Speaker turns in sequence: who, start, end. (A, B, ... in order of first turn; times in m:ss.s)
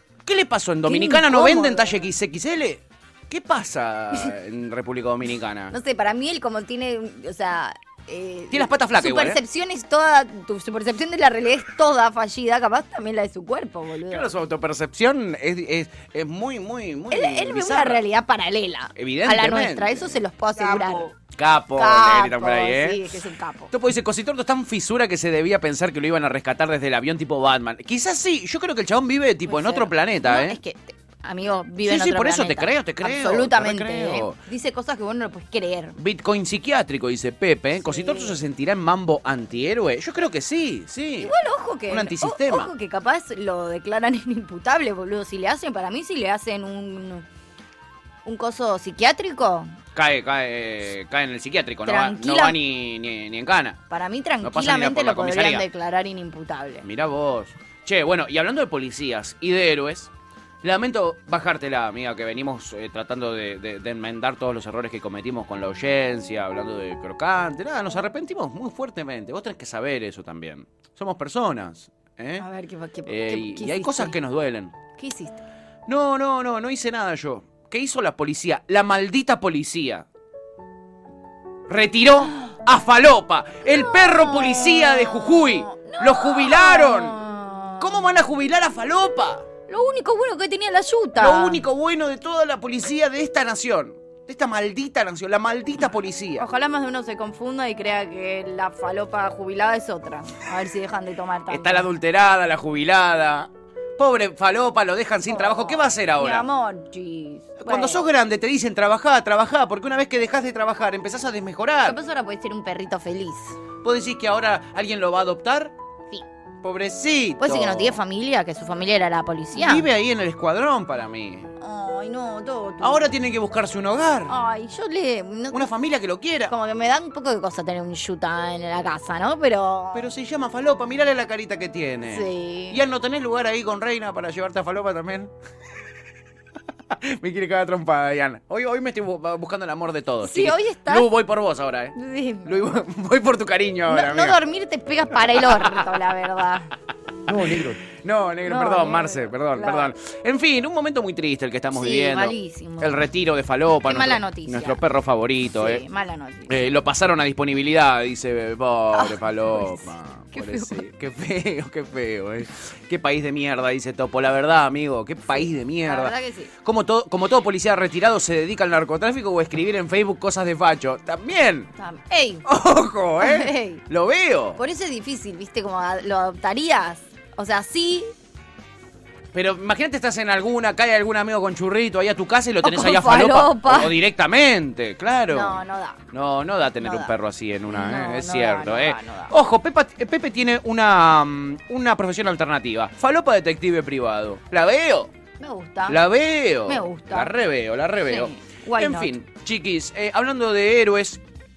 0:00.3-0:05.8 A
0:00.8-0:02.0 B
0:05.7-0:14.3 B
0:08.5-0:09.4 A
0:14.1-0:18.0 A
0:17.1-0:21.1 B
0:19.0-0:23.0 A
0:21.8-0:23.7 B
0:23.7-0:30.6 A
0:29.5-0:36.0 B
0:31.8-0:34.4 A
0:36.0-0:41.3 A
0:37.8-0:38.4 B
0:41.2-0:47.3 B
0:41.9-0:42.7 A
0:48.2-0:49.8 B
0:50.0-0:53.8 A
0:51.9-0:52.6 B
0:53.9-0:56.9 B
0:54.4-0:55.6 A
0:56.8-1:00.1 A
1:00.6-1:12.4 A
1:12.4-1:14.2 B
1:13.1-1:14.7 A
1:15.0-1:15.4 B
1:15.9-1:20.0 A
1:21.7-1:27.2 A
1:23.6-1:28.1 B
1:27.8-1:29.4 A
1:29.7-1:31.6 B
1:31.2-1:36.4 A
1:36.4-1:41.9 B
1:41.5-1:46.4 A
1:45.3-1:48.1 B
1:47.6-1:52.0 A
1:51.8-1:53.6 B
1:53.8-1:55.7 A
1:56.6-1:58.0 A
1:57.4-1:59.9 B
1:59.5-2:01.5 A
2:01.6-2:03.1 B
2:02.8-2:04.3 A
2:04.3-2:05.7 B
2:05.5-2:06.5 A
2:06.5-2:10.1 B
2:09.9-2:15.3 A
2:12.1-2:12.8 B
2:17.0-2:24.4 A
2:20.2-2:21.1 B
2:22.0-2:22.5 B
2:23.9-2:26.7 B
2:25.4-2:25.8 A
2:27.3-2:35.8 A
2:28.4-2:29.9 B
2:31.7-2:33.0 B
2:33.9-2:34.8 B
2:35.6-2:36.6 B
2:36.5-2:51.7 A
2:38.9-2:40.8 B
2:45.3-2:46.5 B
2:51.8-2:52.4 B
2:52.4-2:54.6 A
2:53.2-2:53.8 B
2:54.6-2:58.1 B
2:59.3-3:15.1 A
3:02.6-3:03.9 B
3:05.3-3:06.0 B
3:06.8-3:07.1 B
3:07.7-3:09.3 B
3:15.4-3:16.0 B
3:15.9-3:21.2 A
3:16.7-3:17.3 B
3:18.1-3:19.1 B